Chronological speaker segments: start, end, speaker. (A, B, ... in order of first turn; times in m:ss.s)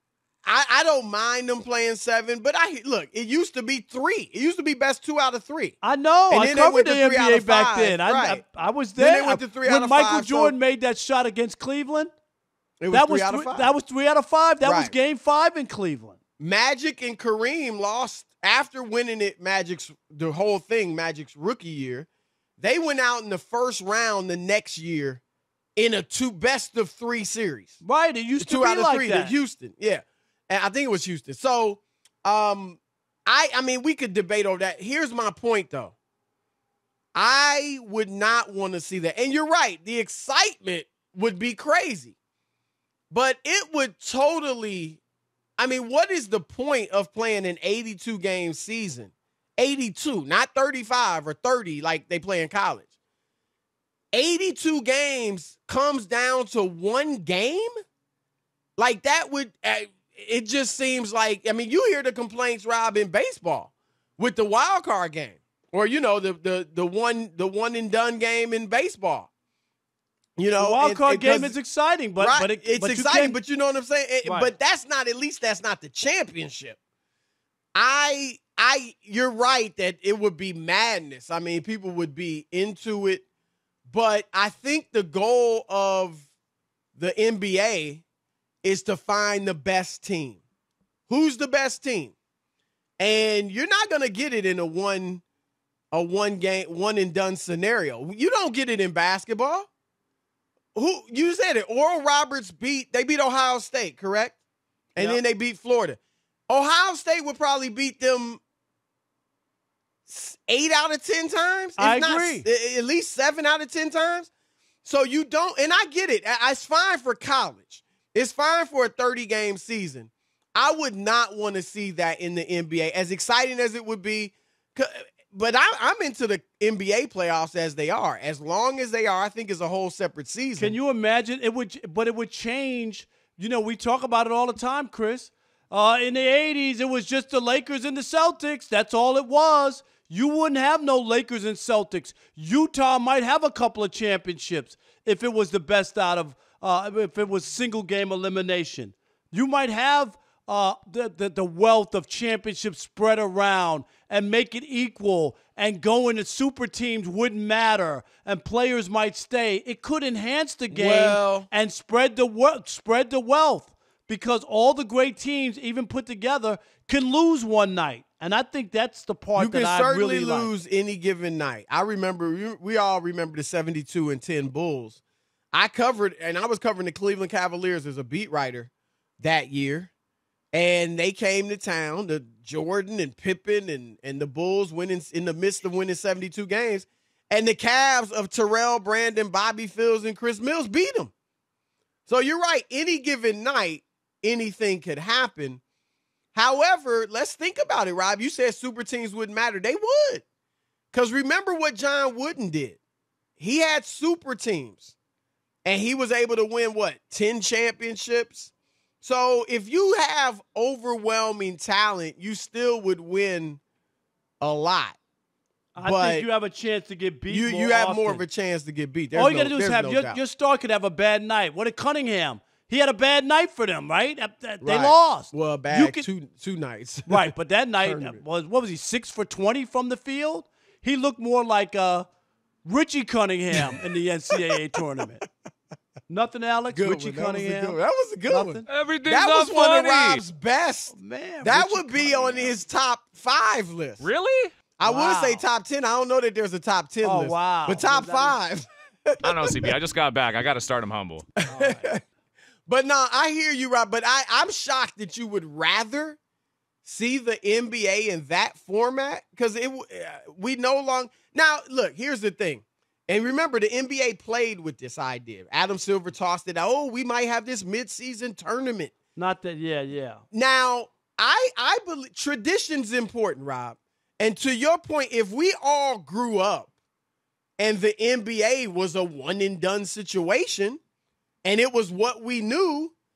0:00.4-0:05.8 A
0:05.8-0:12.1 B
0:06.3-0:08.4 A
0:09.0-0:10.5 A
0:12.8-0:13.7 A
0:12.9-0:16.2 B
0:14.6-0:14.9 A
0:16.4-0:22.1 A
0:22.6-0:25.2 A
0:25.8-0:27.8 A
0:27.8-0:29.3 B
0:28.4-0:35.9 A
0:37.1-0:42.2 A
0:43.1-0:45.0 A
0:45.6-0:52.9 A
0:54.1-0:57.7 A
0:58.8-1:09.3 A
1:10.4-1:11.6 A
1:10.6-1:13.4 B
1:12.2-1:16.8 A
1:14.2-1:14.5 B
1:17.7-1:23.2 A
1:23.9-1:26.2 A
1:27.0-1:28.0 A
1:28.6-1:30.4 A
1:31.1-1:32.1 A
1:33.0-1:35.2 A
1:35.9-1:39.7 A
1:40.7-1:44.4 A
1:44.9-1:46.0 A
1:45.0-1:45.2 B
1:46.5-1:48.4 A
1:50.0-1:54.3 A
1:51.8-1:52.4 B
1:54.8-2:10.8 A
2:10.6-2:50.5 B
2:40.7-2:41.5 A
2:49.4-2:55.0 A
2:55.5-2:59.9 A
3:00.5-3:11.1 A
3:12.1-3:15.6 A
3:16.3-3:20.2 A
3:20.9-3:22.8 A
3:23.4-3:24.9 A
3:25.6-3:33.6 A
3:34.4-3:35.0 A
3:35.8-3:38.2 B
3:35.8-3:36.3 A
3:37.3-3:40.2 A
3:39.1-3:46.1 B
3:44.6-3:48.2 A
3:47.1-3:52.1 B
3:52.6-3:55.2 B
3:56.1-3:58.7 B
3:56.7-4:04.1 A
3:58.7-4:00.2 C
4:00.9-4:02.6 B
4:04.0-4:04.5 C
4:04.8-4:09.7 A
4:04.8-4:05.4 B
4:07.0-4:08.4 B
4:09.2-4:12.0 C
4:11.5-4:12.0 A
4:12.7-4:16.2 A
4:16.8-4:28.9 A
4:29.2-4:30.2 B
4:30.3-4:36.7 A
4:37.6-4:40.8 A
4:41.4-4:42.9 A